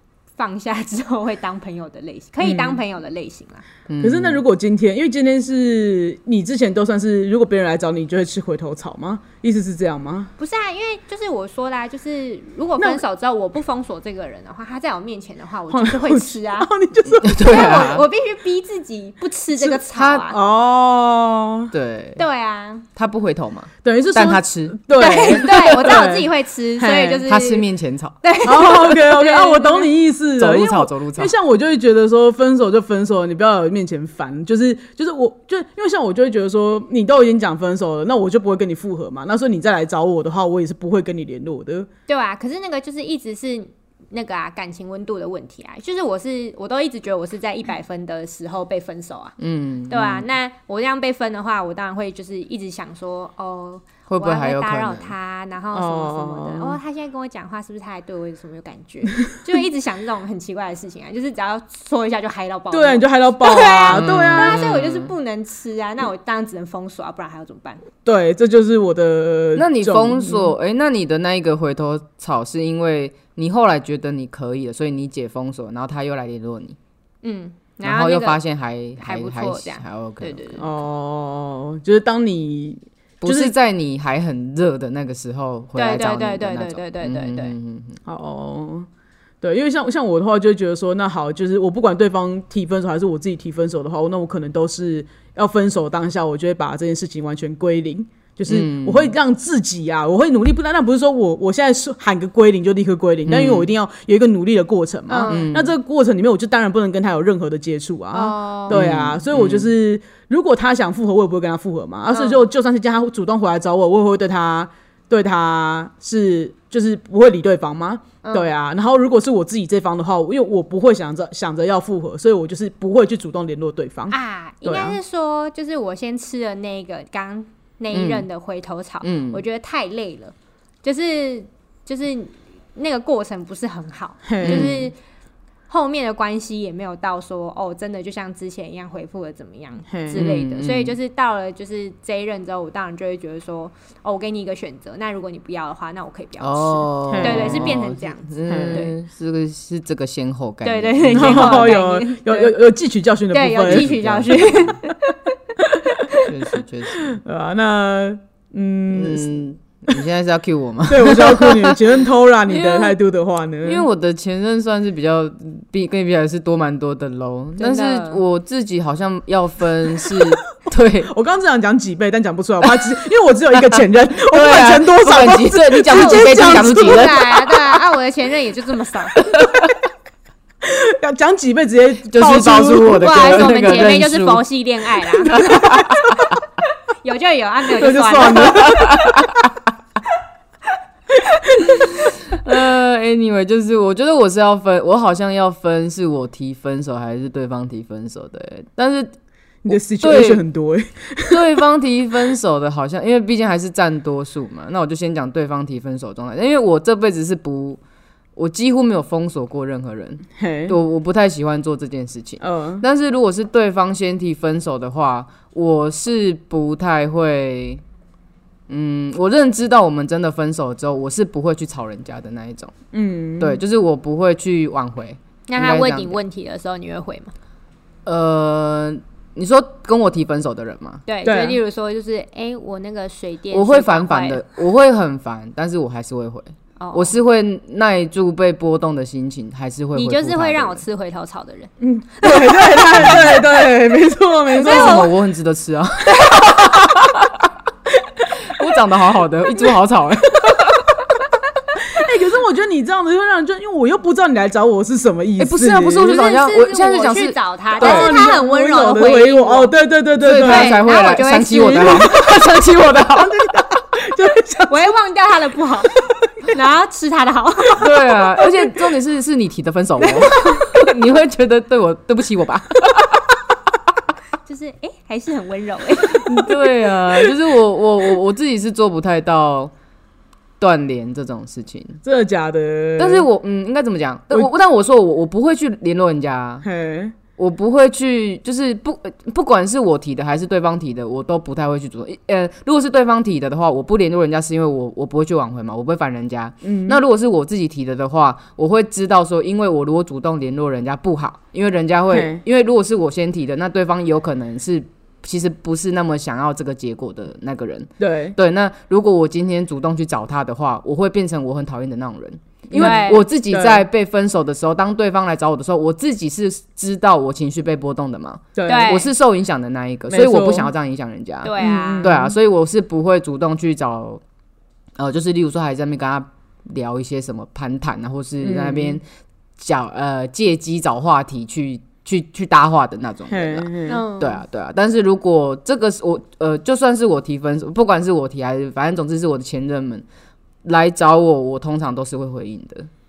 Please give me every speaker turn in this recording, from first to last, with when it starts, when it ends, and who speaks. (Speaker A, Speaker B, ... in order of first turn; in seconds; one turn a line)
Speaker A: 0.4-3.6
Speaker B: 2.4-2.8
Speaker C: 3.9-4.4
Speaker B: 4.0-10.3
Speaker A: 10.4-16.7
Speaker B: 15.7-17.9
Speaker C: 17.1-18.1
Speaker A: 17.4-20.4
Speaker C: 19.9-20.3
Speaker B: 20.3-21.7
Speaker C: 21.7-22.2
Speaker A: 22.2-22.9
Speaker C: 22.9-26.0
Speaker B: 23.8-27.2
Speaker A: 24.9-27.7
Speaker C: 27.3-28.2
Speaker A: 28.2-29.9
Speaker B: 28.4-41.9
Speaker C: 30.4-31.3
Speaker A: 42.1-49.4
Speaker C: 49.4-50.3
Speaker A: 49.9-67.8
Speaker C: 54.1-55.1
Speaker B: 55.7-56.8
Speaker B: 62.7-64.6
Speaker C: 63.9-65.1
Speaker B: 68.0-70.5
Speaker C: 69.6-76.8
Speaker A: 77.2-78.4
Speaker C: 77.8-80.6
Speaker A: 79.0-80.7
Speaker B: 80.6-83.5
Speaker C: 83.2-88.0
Speaker A: 85.8-87.5
Speaker B: 88.1-88.9
Speaker B: 89.4-125.0
Speaker C: 98.5-99.2
Speaker C: 103.3-103.7
Speaker A: 105.1-105.5
Speaker C: 105.3-105.7
Speaker A: 108.1-108.8
Speaker C: 108.7-109.7
Speaker A: 112.1-112.4
Speaker A: 118.2-118.5
Speaker A: 124.1-134.9
Speaker C: 127.9-128.3
Speaker C: 129.0-129.4
Speaker B: 134.3-134.7
Speaker C: 134.4-134.9
Speaker A: 135.7-148.9
Speaker B: 139.9-140.2
Speaker C: 140.1-141.0
Speaker C: 146.4-151.8
Speaker B: 147.1-147.8
Speaker B: 148.5-148.8
Speaker A: 150.6-152.6
Speaker B: 151.1-153.9
Speaker A: 153.3-155.2
Speaker C: 153.6-154.8
Speaker A: 155.9-156.3
Speaker C: 156.2-157.2
Speaker B: 157.0-159.4
Speaker C: 158.9-161.8
Speaker B: 160.9-163.9
Speaker C: 162.5-162.9
Speaker C: 163.6-171.1
Speaker A: 167.6-168.2
Speaker B: 171.1-177.2
Speaker C: 173.6-177.3
Speaker A: 175.9-179.2
Speaker C: 179.2-179.7
Speaker B: 180.6-183.5
Speaker C: 182.1-184.4
Speaker A: 182.9-185.9
Speaker C: 185.2-186.3
Speaker B: 185.6-185.8
Speaker A: 187.0-188.8
Speaker B: 187.8-189.5
Speaker C: 188.6-189.4
Speaker C: 191.7-199.2
Speaker B: 199.7-201.6
Speaker C: 199.7-200.4
Speaker C: 201.3-207.8
Speaker C: 208.4-217.8
Speaker B: 210.4-210.8
Speaker B: 212.4-212.8
Speaker C: 218.7-222.7
Speaker B: 222.9-223.6
Speaker C: 223.4-226.2
Speaker A: 225.5-227.3
Speaker C: 228.1-231.0
Speaker A: 231.1-234.4
Speaker B: 231.2-231.6
Speaker C: 233.5-240.8
Speaker A: 236.8-237.2
Speaker A: 239.9-241.7
Speaker B: 241.8-245.1
Speaker A: 242.2-243.4
Speaker C: 242.9-243.4
Speaker A: 244.6-245.1
Speaker C: 244.6-247.5
Speaker C: 248.4-251.0
Speaker B: 251.8-256.1
Speaker C: 255.4-258.1
Speaker A: 256.0-259.7
Speaker B: 257.8-260.8
Speaker C: 260.2-263.5
Speaker A: 260.3-262.1
Speaker B: 261.7-264.9
Speaker A: 264.7-265.9
Speaker A: 266.4-267.8
Speaker C: 267.8-273.2
Speaker A: 270.0-270.7
Speaker A: 274.4-276.6
Speaker C: 276.1-279.7
Speaker C: 280.6-282.0
Speaker B: 282.0-283.3
Speaker C: 283.0-286.6
Speaker B: 286.6-287.1
Speaker C: 287.4-324.2
Speaker B: 296.6-297.0
Speaker B: 302.1-302.4
Speaker B: 308.0-308.4
Speaker B: 312.7-313.9
Speaker A: 312.8-313.2
Speaker B: 318.6-319.0
Speaker A: 318.7-319.1
Speaker B: 320.1-320.7
Speaker A: 321.4-322.1
Speaker B: 321.6-322.4
Speaker C: 325.0-329.0
Speaker B: 328.4-329.0
Speaker C: 329.6-340.1
Speaker B: 333.3-334.0
Speaker A: 333.9-334.4
Speaker C: 340.6-342.9